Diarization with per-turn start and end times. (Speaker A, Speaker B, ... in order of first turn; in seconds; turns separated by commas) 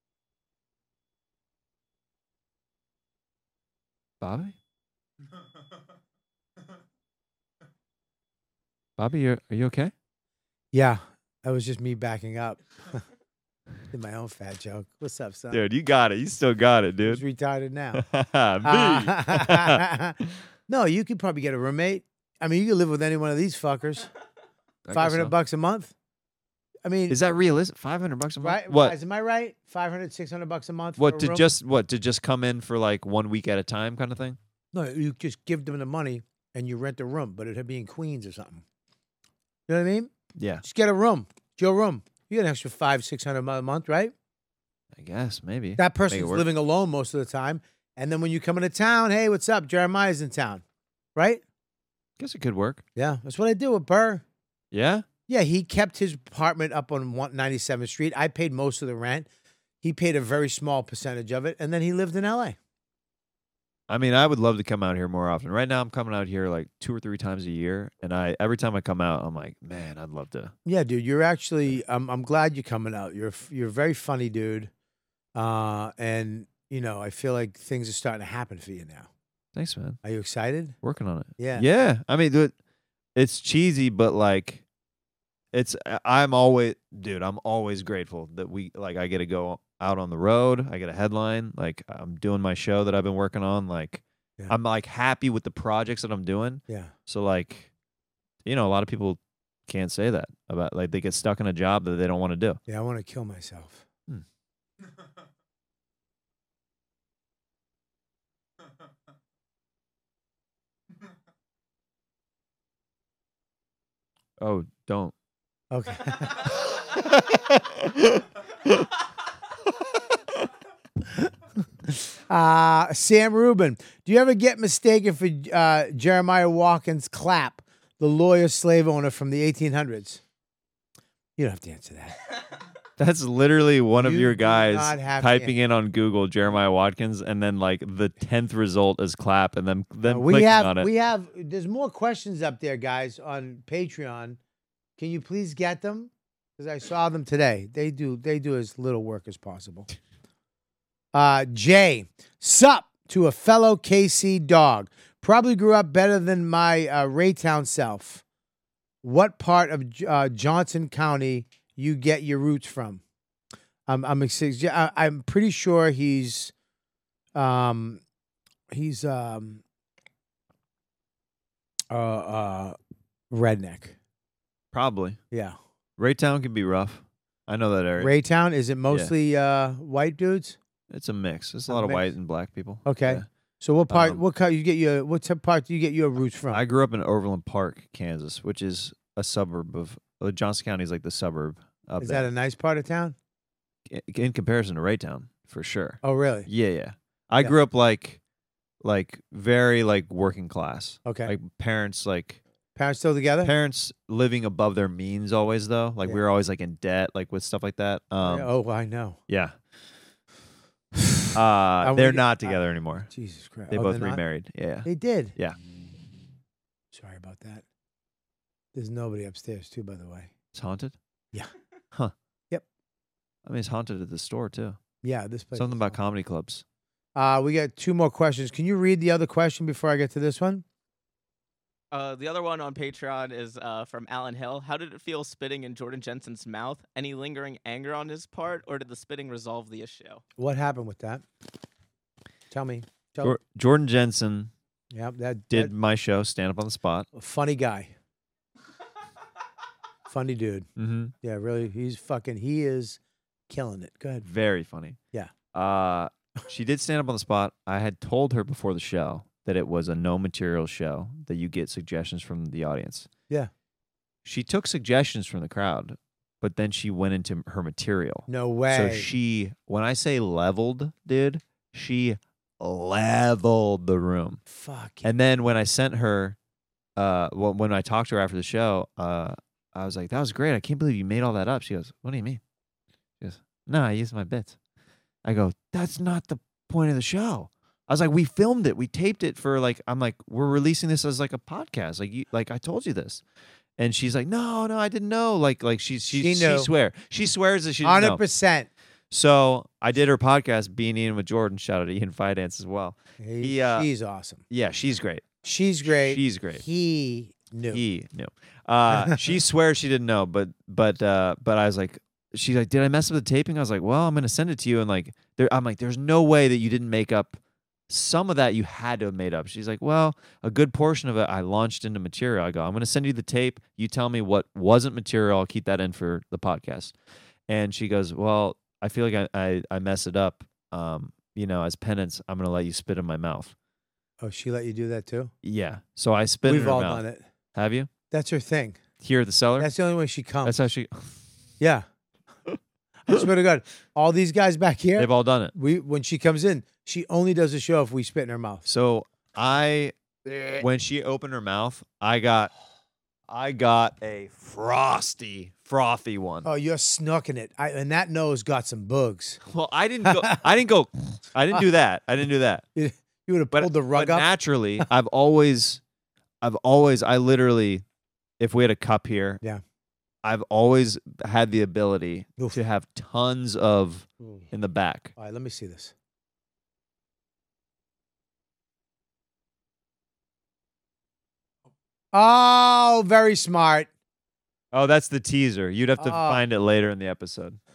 Speaker A: 4.2-4.6, Speaker A: 9.0-9.9, Speaker B: 10.7-13.0, Speaker B: 13.9-15.6, Speaker A: 15.5-17.2, Speaker B: 17.0-18.1, Speaker A: 17.9-20.3, Speaker B: 18.6-20.2, Speaker B: 20.7-24.1, Speaker A: 24.9-25.3, Speaker B: 24.9-25.9, Speaker B: 26.9-27.2, Speaker A: 27.1-29.0, Speaker B: 28.4-31.4, Speaker A: 31.0-34.4, Speaker B: 34.7-38.6, Speaker B: 39.7-40.1, Speaker A: 40.4-40.6, Speaker B: 40.6-44.1, Speaker A: 44.9-46.5, Speaker B: 45.8-50.6, Speaker B: 51.2-51.4, Speaker A: 52.2-52.8, Speaker B: 53.0-54.2, Speaker A: 54.7-55.1, Speaker B: 55.3-59.3, Speaker B: 59.8-62.6, Speaker A: 63.9-70.5, Speaker B: 70.7-74.7, Speaker B: 75.3-79.1, Speaker A: 79.5-80.0, Speaker B: 80.0-80.8, Speaker A: 80.8-82.5, Speaker B: 81.4-81.7, Speaker A: 83.2-84.6, Speaker A: 85.5-97.7, Speaker A: 98.5-102.6, Speaker B: 102.7-103.8, Speaker A: 114.4-115.1, Speaker B: 115.7-116.5, Speaker A: 116.8-118.9, Speaker B: 122.1-130.2, Speaker B: 131.4-132.2, Speaker A: 133.0-140.9, Speaker B: 134.0-135.5, Speaker B: 140.0-144.4, Speaker B: 145.0-149.9, Speaker B: 151.1-158.2, Speaker B: 159.0-163.0, Speaker B: 163.9-166.5, Speaker B: 167.3-168.0, Speaker B: 168.7-169.6, Speaker B: 171.9-172.8, Speaker B: 173.3-174.0, Speaker A: 174.7-175.2, Speaker B: 175.3-175.6, Speaker A: 176.0-178.1, Speaker B: 178.0-180.6, Speaker A: 180.9-183.3, Speaker B: 181.7-182.1, Speaker B: 182.8-186.6, Speaker A: 183.9-184.2, Speaker A: 186.5-192.3, Speaker B: 192.0-193.2, Speaker A: 193.9-198.2, Speaker B: 196.0-196.5, Speaker A: 198.8-202.4, Speaker B: 201.1-201.3, Speaker B: 202.8-203.5, Speaker A: 203.4-208.5, Speaker B: 208.2-209.2, Speaker A: 209.3-209.6, Speaker A: 211.3-213.1, Speaker B: 211.8-214.2, Speaker A: 213.7-215.6, Speaker B: 214.8-215.4, Speaker B: 216.9-217.6, Speaker B: 218.7-220.3, Speaker A: 220.5-221.0, Speaker A: 223.4-224.8, Speaker B: 225.0-226.0, Speaker A: 225.6-226.6, Speaker B: 227.2-230.7, Speaker C: 231.9-240.2, Speaker B: 240.4-241.2, Speaker B: 242.5-243.4, Speaker A: 243.2-244.5, Speaker B: 244.9-245.7, Speaker A: 245.5-247.1, Speaker B: 247.1-247.9, Speaker B: 250.1-250.7, Speaker A: 250.8-251.1, Speaker B: 251.2-254.3, Speaker A: 254.2-255.0, Speaker A: 255.5-263.1, Speaker A: 264.2-274.4, Speaker B: 268.3-269.1, Speaker B: 274.5-275.1, Speaker A: 275.0-276.4, Speaker A: 277.0-282.4, Speaker A: 283.2-284.6, Speaker A: 285.2-293.2, Speaker A: 293.8-298.2, Speaker B: 296.1-296.7, Speaker B: 297.8-298.7, Speaker A: 299.1-303.9, Speaker B: 303.2-304.4, Speaker A: 304.5-305.3, Speaker B: 305.4-307.8, Speaker A: 305.8-306.6, Speaker A: 307.7-326.9, Speaker B: 308.9-309.2, Speaker A: 327.5-333.5, Speaker B: 334.2-335.3, Speaker A: 335.4-337.9, Speaker B: 336.4-337.2, Speaker B: 338.1-338.8, Speaker A: 339.0-339.7, Speaker B: 339.6-340.6, Speaker A: 340.4-341.1, Speaker B: 341.6-341.9, Speaker B: 343.1-348.6, Speaker A: 345.0-345.5, Speaker A: 348.6-349.9, Speaker A: 350.6-352.5, Speaker A: 353.3-356.5, Speaker B: 356.4-359.4, Speaker A: 359.4-362.6, Speaker B: 360.0-360.4, Speaker B: 362.8-364.3, Speaker A: 363.5-365.8, Speaker A: 366.4-367.8, Speaker A: 368.4-369.4, Speaker A: 370.2-375.1, Speaker B: 375.2-375.9, Speaker B: 382.1-383.9, Speaker A: 384.7-387.6, Speaker B: 386.0-386.4